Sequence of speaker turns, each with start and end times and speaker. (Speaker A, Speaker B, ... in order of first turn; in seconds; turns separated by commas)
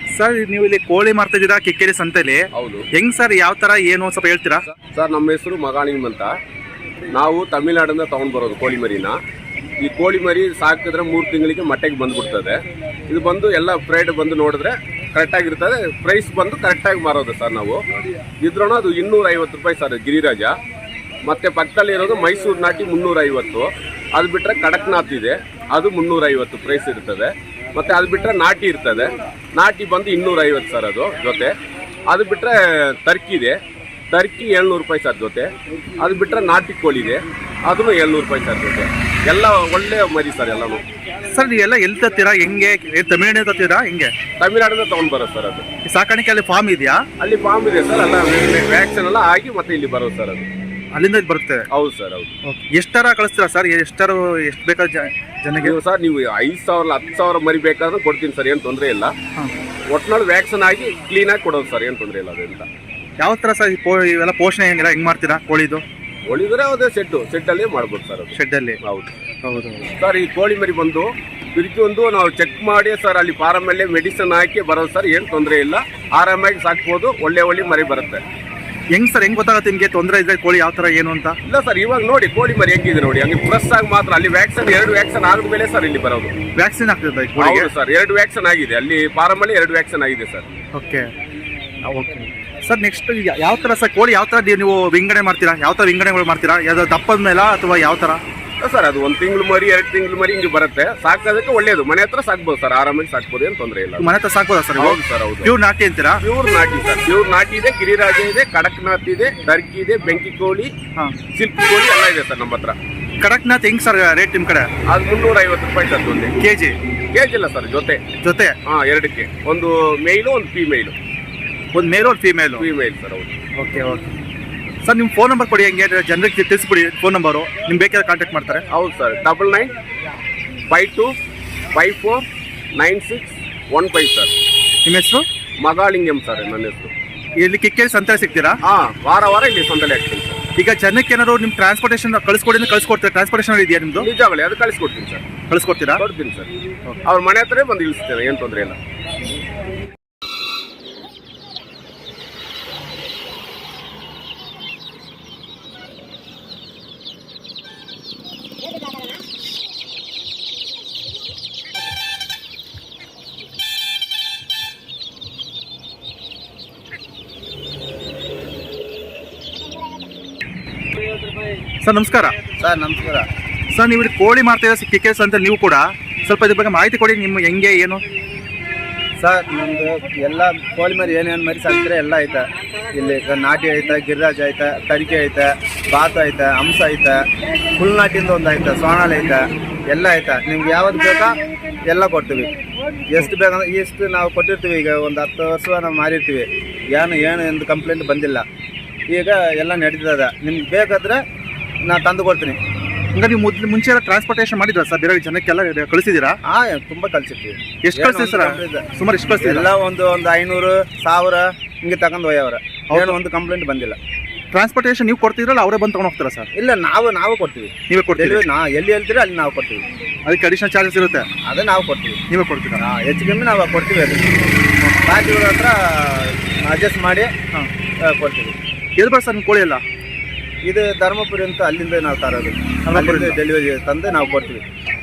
Speaker A: 0.1-4.6, Speaker B: 2.5-2.9, Speaker B: 4.8-6.3, Speaker B: 7.1-9.2, Speaker B: 9.8-17.8, Speaker B: 18.4-20.6, Speaker B: 21.2-31.5, Speaker B: 32.1-33.5, Speaker B: 34.1-40.8, Speaker A: 41.3-44.1, Speaker B: 44.4-45.6, Speaker A: 45.9-47.0, Speaker B: 47.2-50.5, Speaker A: 50.9-51.7, Speaker B: 51.7-52.3, Speaker A: 52.4-55.8, Speaker B: 55.6-59.1, Speaker B: 59.9-62.7, Speaker A: 63.2-65.8, Speaker B: 66.3-69.1, Speaker A: 68.3-68.8, Speaker A: 69.4-69.9, Speaker B: 70.0-78.2, Speaker A: 78.9-81.3, Speaker B: 81.5-86.3, Speaker A: 86.5-87.7, Speaker B: 87.4-90.5, Speaker A: 90.7-91.1, Speaker A: 91.8-98.2, Speaker B: 98.6-104.1, Speaker A: 104.0-106.2, Speaker B: 104.8-105.6, Speaker B: 106.2-110.7, Speaker B: 111.3-112.8, Speaker A: 113.2-114.7, Speaker B: 114.9-116.3, Speaker A: 116.4-116.8, Speaker B: 117.1-118.0, Speaker A: 118.2-118.5, Speaker B: 118.7-120.9, Speaker A: 121.7-122.6, Speaker B: 122.6-123.3, Speaker A: 123.5-124.1, Speaker A: 124.8-128.7, Speaker B: 128.7-129.7, Speaker B: 130.7-131.1, Speaker B: 131.7-132.2, Speaker B: 132.8-134.3, Speaker A: 134.8-135.2, Speaker B: 135.6-136.9, Speaker A: 137.4-138.6, Speaker B: 138.6-140.4, Speaker A: 140.6-144.1, Speaker B: 144.0-145.2, Speaker A: 145.5-146.0, Speaker B: 146.0-146.5, Speaker B: 147.0-148.8, Speaker A: 171.8-172.4, Speaker C: 172.6-173.3, Speaker A: 173.7-178.0, Speaker C: 179.2-187.2, Speaker C: 187.8-192.5, Speaker C: 193.1-198.4, Speaker C: 199.1-201.2, Speaker C: 201.8-202.6, Speaker A: 203.1-206.4, Speaker C: 206.5-208.9, Speaker A: 207.8-209.7, Speaker C: 209.4-214.0, Speaker A: 214.5-216.5, Speaker C: 216.6-219.8, Speaker A: 217.9-218.4, Speaker A: 220.2-221.3, Speaker C: 221.4-222.2, Speaker A: 222.3-222.8, Speaker C: 222.8-224.3, Speaker C: 225.0-227.3, Speaker C: 228.1-228.5, Speaker A: 229.0-229.8, Speaker C: 230.6-234.6, Speaker A: 232.9-233.4